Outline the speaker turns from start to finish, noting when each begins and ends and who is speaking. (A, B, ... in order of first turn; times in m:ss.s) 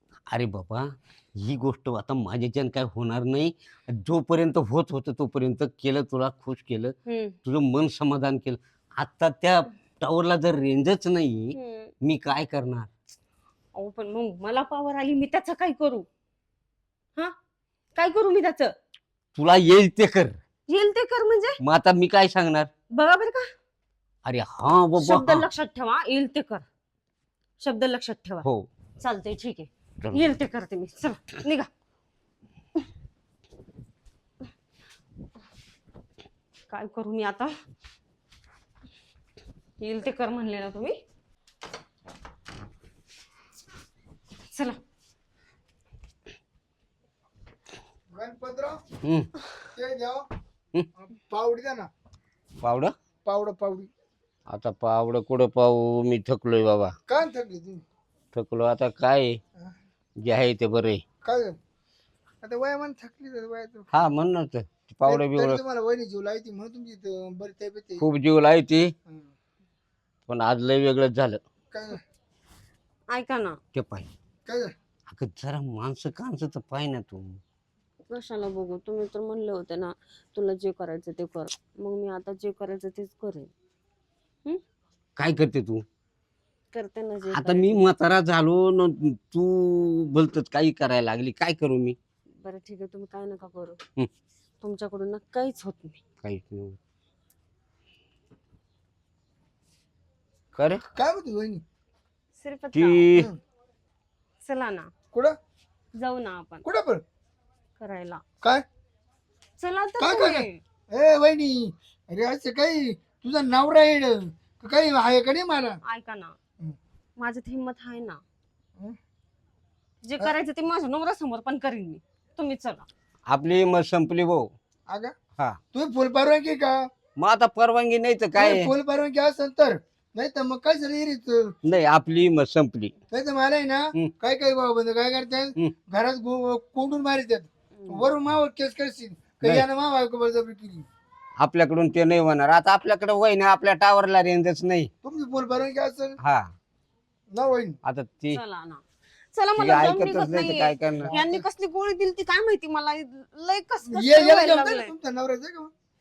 0:00.3-0:06.9 A
0:07.1-0:07.4 B
0:07.4-0:12.9 A
0:11.5-0:11.9 B
0:13.8-0:16.1 B
0:18.0-0:18.7 B
0:19.4-0:20.4 A
0:20.7-0:21.6 B
0:21.6-0:22.7 A
0:22.9-0:23.5 B
0:24.2-0:25.4 A
0:25.0-0:26.6 B
0:27.6-0:28.4 B
0:29.0-0:31.7 B
0:30.0-0:30.3 A
0:36.7-0:37.5 B
0:39.8-0:41.0 B
0:44.5-0:44.8 B
0:48.1-0:48.8 C
0:49.0-0:49.3 A
0:49.7-0:50.3 C
0:51.0-0:51.9 C
0:52.6-0:52.9 A
0:53.2-0:53.9 C
0:54.5-0:57.0 A
0:57.1-0:57.8 C
0:58.3-0:59.4 A
1:00.2-1:01.0 A
1:01.2-1:01.6 C
1:02.4-1:03.9 C
1:03.9-1:05.6 A
1:05.0-1:08.0 C
1:08.0-1:08.9 A
1:10.3-1:11.4 A
1:11.7-1:12.0 C
1:13.1-1:13.6 B
1:13.8-1:14.1 A
1:14.5-1:14.7 C
1:15.1-1:17.4 A
1:18.1-1:23.5 B
1:25.2-1:25.8 A
1:26.7-1:27.8 B
1:27.3-1:32.0 A
1:32.4-1:33.8 B
1:34.6-1:36.0 B
1:36.2-1:36.8 A
1:40.6-1:40.8 A
1:41.0-1:41.6 C
1:42.4-1:43.1 B
1:42.7-1:43.3 A
1:44.4-1:44.9 B
1:45.9-1:46.6 B
1:46.6-1:47.0 C
1:47.8-1:48.2 B
1:49.6-1:50.6 B
1:50.0-1:55.8 C
1:55.8-1:56.4 B
1:57.2-1:58.2 B
2:00.0-2:02.9 B
2:03.3-2:04.5 A
2:04.9-2:05.2 C
2:05.7-2:06.8 C
2:07.2-2:08.7 A
2:08.4-2:11.6 C
2:11.6-2:12.9 A
2:13.1-2:20.9 C
2:17.8-2:18.1 B
2:21.4-2:24.9 A
2:25.0-2:26.2 C
2:26.2-2:26.5 A
2:27.3-2:27.8 C
2:27.8-2:28.4 A
2:28.3-2:34.9 B
2:29.6-2:31.1 A
2:31.0-2:31.4 C
2:33.9-2:35.7 C